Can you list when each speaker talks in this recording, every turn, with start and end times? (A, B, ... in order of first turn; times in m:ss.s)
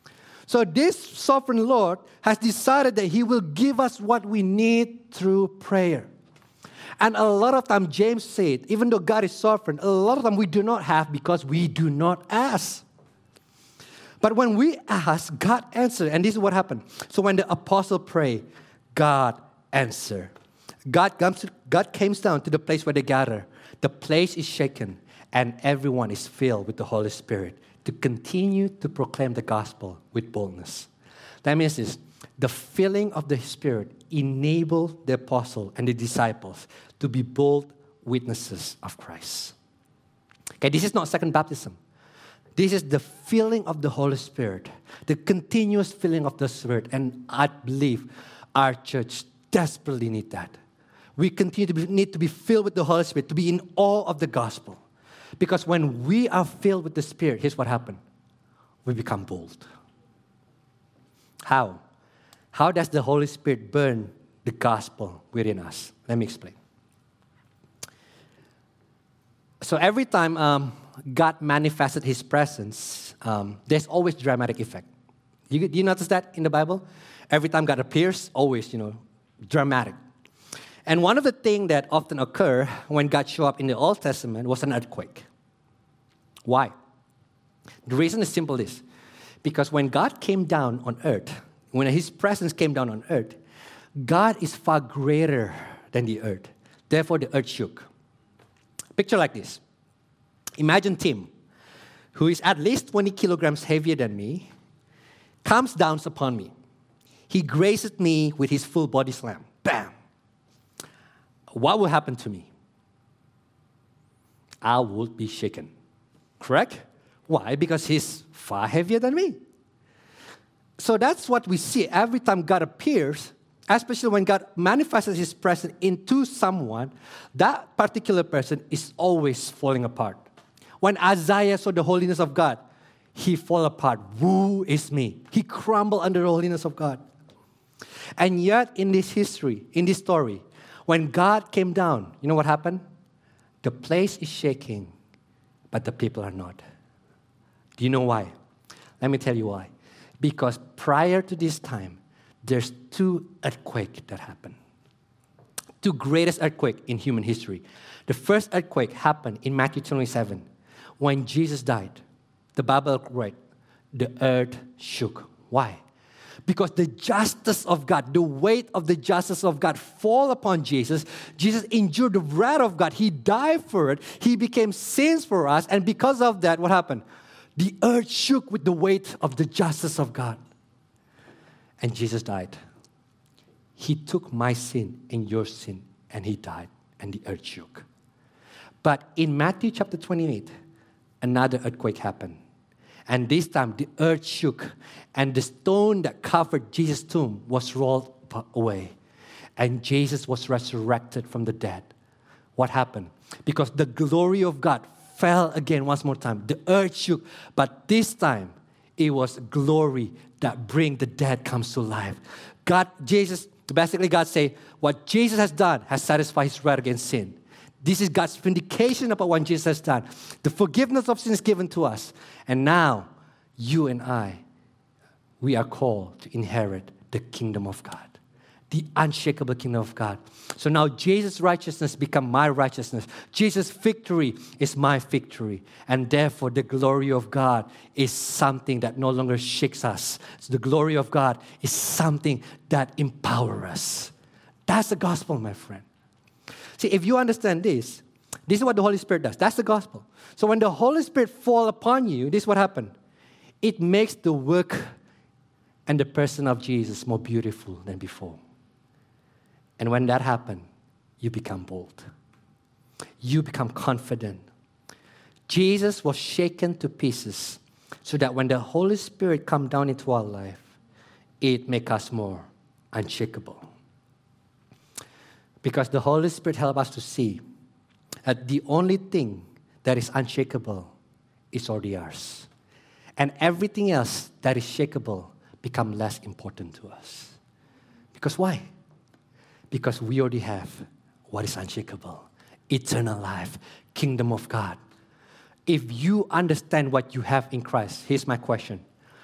0:00.5-0:06.1 A
0:07.0-0:12.8 A
0:14.2-0:20.3 A
0:20.9-0:30.9 A
0:31.4-0:39.5 A
0:40.6-0:41.8 A
0:42.6-0:50.5 A
0:51.2-0:54.8 A
0:55.4-0:58.0 A
0:58.8-0:59.7 A
1:01.4-1:01.8 A
1:02.5-1:06.5 A
1:09.6-1:14.9 A
1:15.5-1:20.0 A
1:20.9-1:25.2 A
1:26.4-1:26.7 A
1:27.8-1:28.8 A
1:29.4-1:33.4 A
1:34.0-1:37.9 A
1:39.0-1:39.6 A
1:40.6-1:41.3 A
1:42.1-1:44.5 A
1:45.4-1:46.5 A
1:47.3-1:49.9 A
1:51.5-1:52.5 A
1:54.6-1:55.7 A
1:56.4-1:59.4 A
2:00.8-2:10.2 A
2:10.8-2:12.6 A
2:13.1-2:17.0 A
2:18.2-2:22.8 A
2:23.6-2:24.9 A
2:25.7-2:26.6 A
2:27.8-2:28.3 A
2:29.0-2:34.6 A
2:35.8-2:40.4 A
2:41.0-2:42.0 A
2:42.6-2:43.3 A
2:43.9-2:45.8 A
2:46.5-2:57.0 A
2:57.6-3:00.4 A
3:01.8-3:02.5 A
3:03.8-3:07.8 A
3:08.8-3:10.5 A
3:11.2-3:12.4 A
3:13.1-3:18.9 A
3:19.6-3:21.9 A
3:22.6-3:44.4 A
3:45.4-3:48.1 A
3:48.7-4:04.1 A
4:04.7-4:05.8 A
4:06.8-4:12.9 A
4:13.6-4:14.9 A
4:15.9-4:18.4 A
4:19.8-4:20.6 A
4:21.2-4:22.1 A
4:23.2-4:24.4 A
4:25.5-4:30.7 A
4:31.4-4:33.6 A
4:35.6-4:37.4 A
4:38.2-4:40.9 A
4:41.5-4:42.5 A
4:43.2-4:47.4 A
4:48.1-4:48.6 A
4:49.7-4:54.8 A
4:55.7-4:58.8 A